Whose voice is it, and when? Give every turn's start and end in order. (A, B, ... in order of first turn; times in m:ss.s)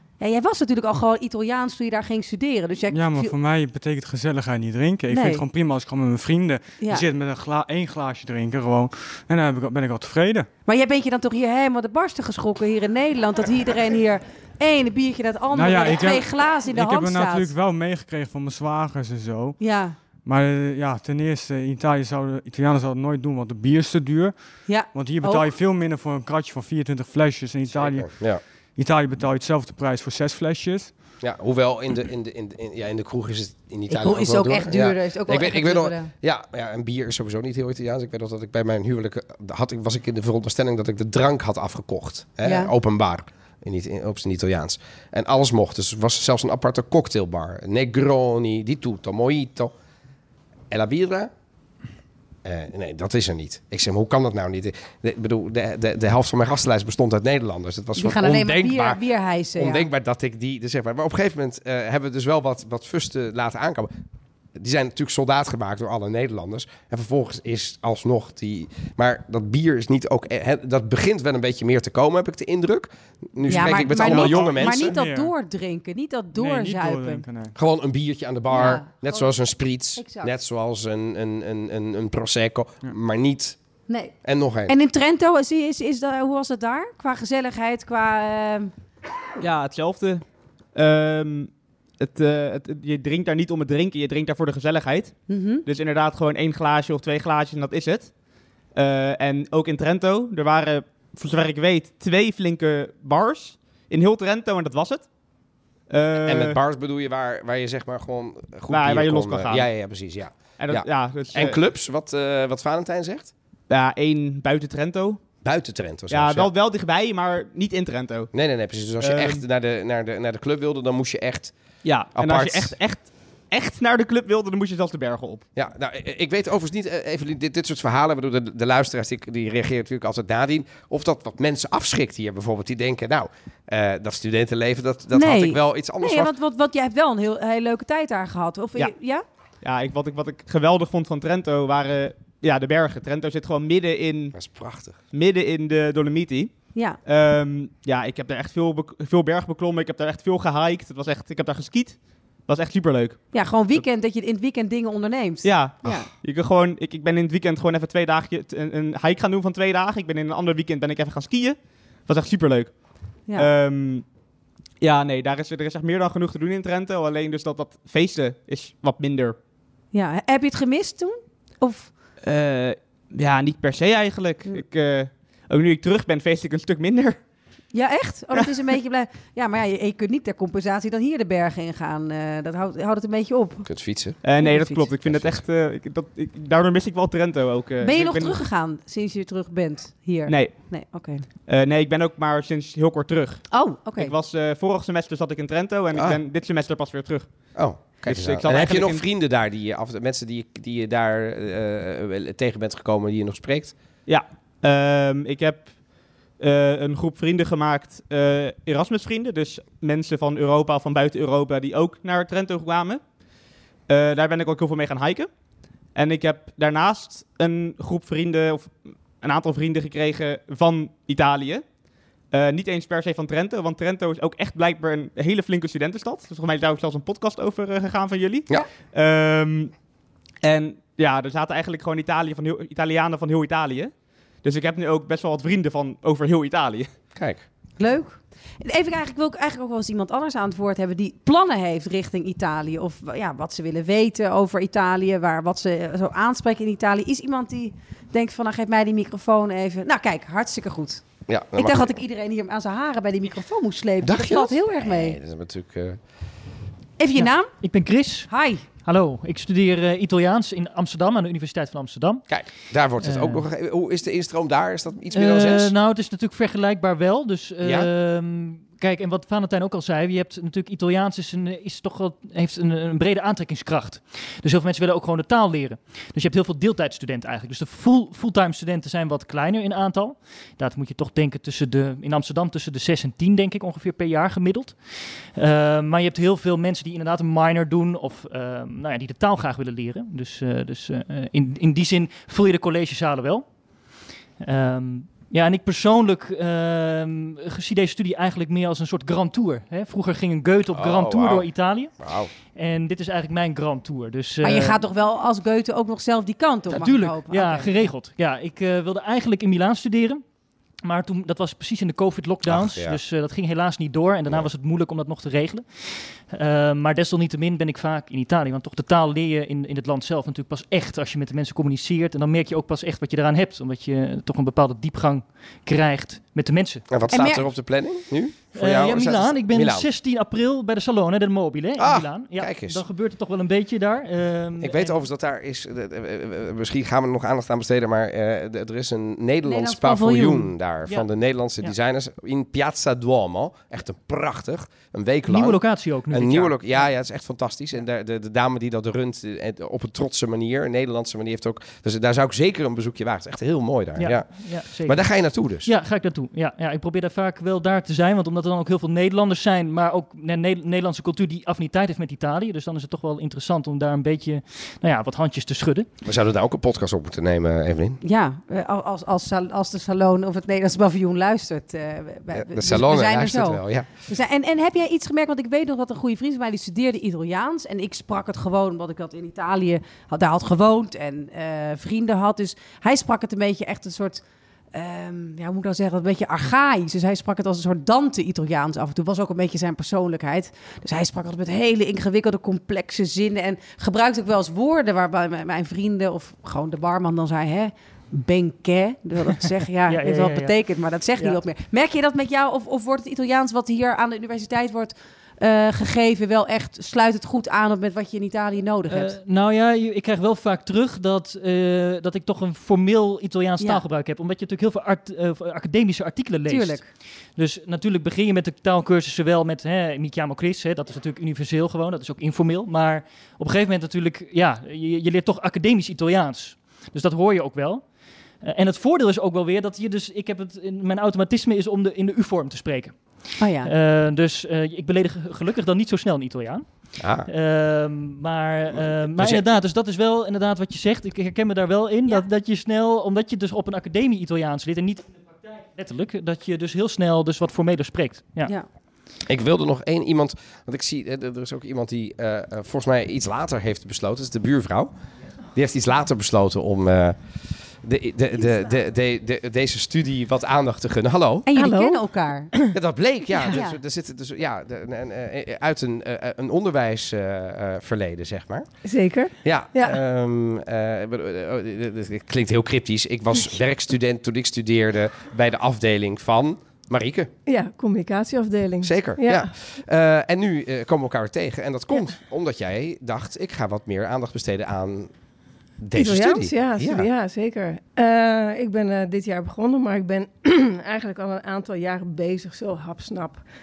0:00.2-0:03.3 A
0:02.9-0:10.5 B
0:05.1-0:05.4 A
0:06.8-0:07.1 A
0:10.7-0:17.5 A
0:15.5-0:19.6 B
0:19.6-0:20.0 A
0:20.2-0:24.4 B
0:24.7-0:25.6 A
0:24.9-0:28.2 B
0:27.7-0:28.4 C
0:28.8-0:31.0 B
0:31.2-0:49.7 C
0:33.9-0:36.1 A
0:42.4-0:42.7 A
0:50.7-0:51.3 C
0:52.4-0:59.0 C
0:58.0-0:59.9 A
0:59.6-1:03.9 C
1:04.6-1:15.0 C
1:13.5-1:17.3 A
1:13.6-1:15.3 B
1:16.4-1:17.6 B
1:17.6-1:23.6 C
1:18.5-1:19.3 A
1:20.0-1:20.3 A
1:23.9-1:24.2 A
1:24.2-1:24.7 C
1:24.7-1:28.7 A
1:29.4-1:38.1 D
1:35.3-1:35.6 A
1:38.7-1:45.1 D
1:45.9-1:46.6 D
1:46.2-1:53.3 C
1:48.7-1:49.7 D
1:50.6-1:51.6 D
1:53.7-1:55.2 D
1:55.4-1:56.5 C
1:56.1-1:58.3 D
1:58.3-2:01.5 C
1:59.0-1:59.4 D
2:01.8-2:05.4 D
2:02.2-2:02.8 C
2:05.6-2:16.3 C
2:15.1-2:19.2 A
2:19.6-2:24.3 D
2:24.3-2:25.0 C
2:25.1-2:33.2 D
2:26.7-2:27.0 A
2:33.3-2:36.1 A
2:35.4-2:42.8 D
2:43.4-2:44.0 D
2:44.8-2:49.4 D
2:49.9-2:51.9 A
2:52.2-2:57.2 D
2:57.7-3:03.7 A
3:03.7-3:04.2 C
3:04.2-3:08.4 D
3:04.4-3:04.9 A
3:05.0-3:05.4 C
3:07.8-3:11.3 A
3:10.3-3:10.7 D
3:11.4-3:13.4 D
3:13.5-3:14.1 A
3:14.0-3:17.5 D
3:17.5-3:23.8 C
3:18.0-3:19.0 D
3:24.1-3:25.8 D
3:26.4-3:33.0 D
3:33.9-3:35.3 D
3:35.9-3:41.6 D
3:42.3-3:49.7 D
3:50.4-3:56.9 D
3:57.2-3:57.4 C
3:57.8-4:15.2 A
4:11.3-4:11.9 C
4:14.0-4:16.0 C
4:17.0-4:17.5 A
4:17.2-4:22.2 E
4:18.3-4:18.6 A
4:22.3-4:25.7 C
4:23.0-4:23.4 E
4:25.1-4:44.8 E
4:45.4-4:53.5 E
4:54.4-5:01.9 E
5:00.7-5:01.5 C
5:02.0-5:02.3 C
5:02.5-5:04.8 E
5:04.4-5:07.8 A
5:06.7-5:10.2 E
5:10.8-5:26.8 E
5:12.5-5:13.0 C
5:26.9-5:29.9 C
5:27.1-5:27.4 A
5:28.6-5:35.0 E
5:31.8-5:32.8 C
5:34.6-5:55.7 C
5:39.4-5:40.5 A
5:45.3-5:46.9 E
5:54.0-5:55.0 E
5:55.6-6:05.9 E
6:06.0-6:08.0 C
6:08.0-6:49.2 A
6:12.3-6:13.9 C
6:39.9-6:40.5 E
6:48.9-6:56.8 E
6:56.5-6:56.9 A
6:57.4-7:07.8 E
7:08.4-7:13.0 E
7:13.4-7:13.7 A
7:13.6-7:28.5 E
7:17.0-7:17.3 C
7:19.2-7:19.4 C
7:29.3-7:34.9 C
7:35.6-7:37.2 C
7:37.8-7:41.5 C
7:41.5-7:42.5 A
7:41.6-7:42.0 F
7:42.7-7:48.7 C
7:43.3-7:43.6 F
7:48.8-7:50.0 F
7:49.4-7:57.3 C
7:57.5-7:59.5 F
7:58.8-8:05.1 C
8:05.8-8:07.1 C
8:05.9-8:13.4 F